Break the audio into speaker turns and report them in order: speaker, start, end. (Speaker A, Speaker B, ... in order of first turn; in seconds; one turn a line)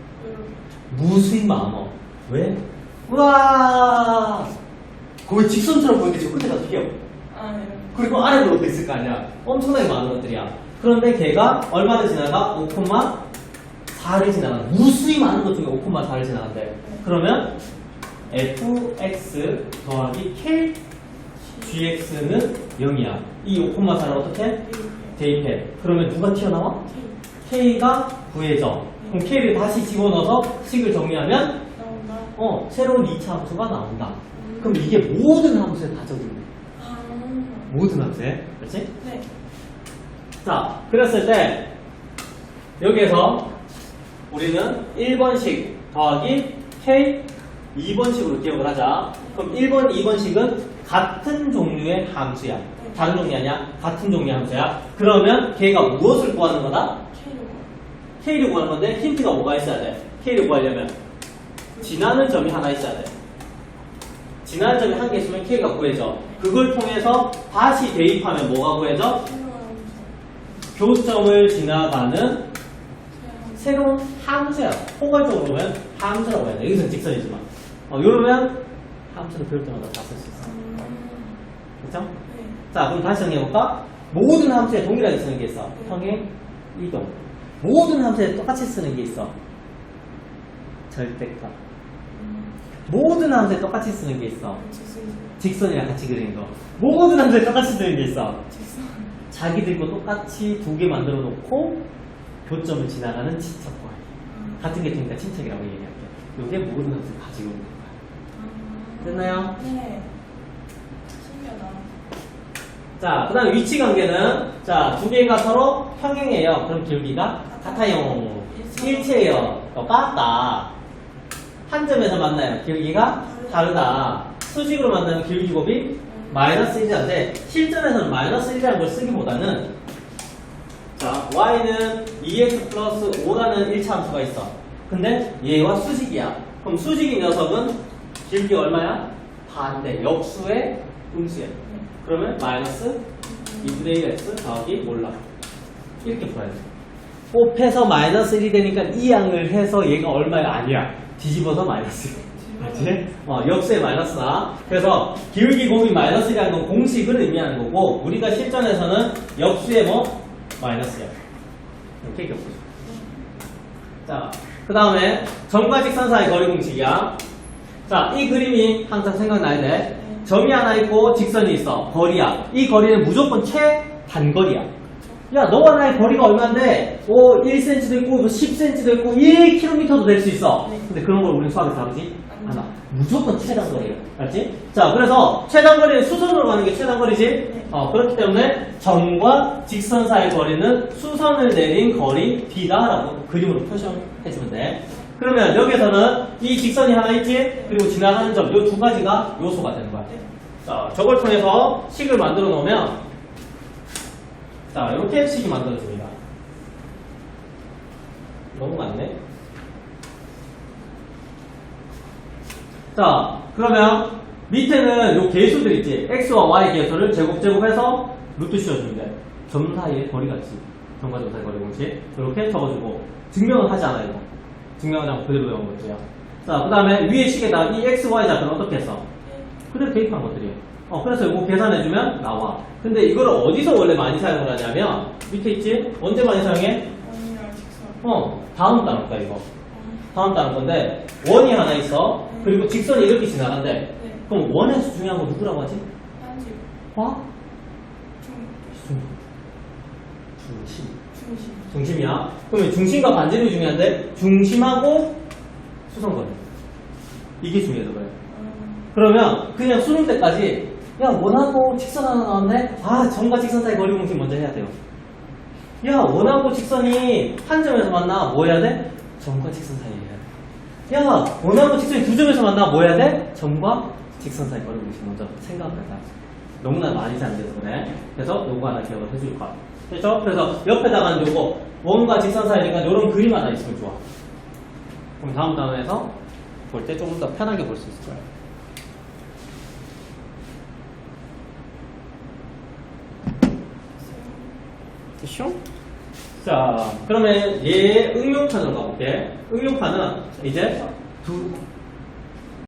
Speaker A: 0.2-0.7
Speaker B: 0.9-4.5
Speaker B: 5.3-6.9
Speaker A: 7.3-8.1
Speaker B: 7.9-13.2
Speaker B: 13.9-17.5
Speaker B: 18.3-20.8
Speaker A: 21.4-21.8
Speaker B: 21.6-24.6
Speaker A: 24.6-25.2
Speaker B: 25.2-26.8
Speaker A: 26.8-27.2
Speaker B: 27.4-31.6
Speaker A: 29.0-29.3
Speaker A: 31.7-32.4
Speaker B: 32.4-36.5
Speaker A: 34.3-34.9
Speaker A: 36.8-37.7
Speaker B: 37.7-38.9
Speaker A: 39.0-39.3
Speaker B: 40.4-41.7
Speaker B: 42.8-43.5
Speaker B: 44.3-57.0
Speaker A: 52.8-53.0
Speaker A: 57.1-57.7
Speaker B: 58.2-61.0
Speaker A: 61.7-62.2
Speaker B: 61.8-63.1
Speaker B: 64.4-69.2
Speaker A: 69.2-70.2
Speaker B: 70.8-72.5
Speaker A: 73.1-73.9
Speaker B: 73.6-80.5
Speaker A: 80.4-81.4
Speaker B: 81.8-82.1
Speaker A: 82.3-82.6
Speaker B: 82.7-89.3
Speaker A: 85.8-86.0
Speaker B: 90.9-91.6
Speaker A: 92.1-92.6
Speaker B: 92.9-94.6
Speaker A: 94.6-95.4
Speaker B: 95.4-98.4
Speaker A: 98.5-99.1
Speaker B: 99.3-101.8
Speaker B: 102.5-104.0
Speaker A: 104.2-104.8
Speaker B: 104.6-107.9
Speaker A: 108.3-110.1
Speaker B: 109.0-109.5
Speaker A: 111.2-111.9
Speaker B: 113.0-120.7
Speaker A: 117.5-119.4
Speaker B: 121.7-129.7
Speaker A: 123.2-123.7
Speaker A: 126.1-126.5
Speaker B: 131.0-143.0
Speaker A: 141.6-141.9
Speaker A: 143.2-143.9
Speaker B: 143.6-145.2
Speaker B: 146.0-146.6
Speaker B: 147.3-161.1
Speaker A: 152.1-153.0
Speaker B: 162.0-162.6
Speaker A: 162.8-163.2
Speaker B: 164.1-167.2
Speaker B: 167.9-174.7
Speaker A: 169.9-170.3
Speaker B: 175.3-200.1
Speaker A: 180.6-180.9
Speaker A: 182.3-182.7
Speaker A: 187.5-187.7
Speaker B: 200.7-203.0
Speaker B: 204.7-206.1
Speaker B: 208.5-209.2
Speaker B: 212.9-224.2
Speaker B: 224.8-229.1
Speaker A: 229.2-229.5
Speaker B: 229.7-236.9
Speaker A: 237.0-238.0
Speaker B: 238.0-239.5
Speaker A: 239.7-240.1
Speaker B: 240.1-245.9
Speaker A: 242.3-242.7
Speaker A: 244.0-244.2
Speaker A: 246.2-246.7
Speaker B: 246.9-247.2
Speaker A: 248.2-248.9
Speaker B: 250.4-251.0
Speaker A: 251.1-251.8
Speaker B: 251.7-255.2
Speaker B: 255.9-256.4
Speaker B: 257.4-258.1
Speaker A: 258.3-258.9
Speaker B: 258.9-264.7
Speaker B: 265.8-270.2
Speaker B: 270.9-276.0
Speaker B: 276.6-284.0
Speaker B: 285.2-286.1
Speaker B: 286.7-288.2
Speaker A: 294.0-294.6
Speaker B: 295.2-295.6
Speaker B: 296.4-301.6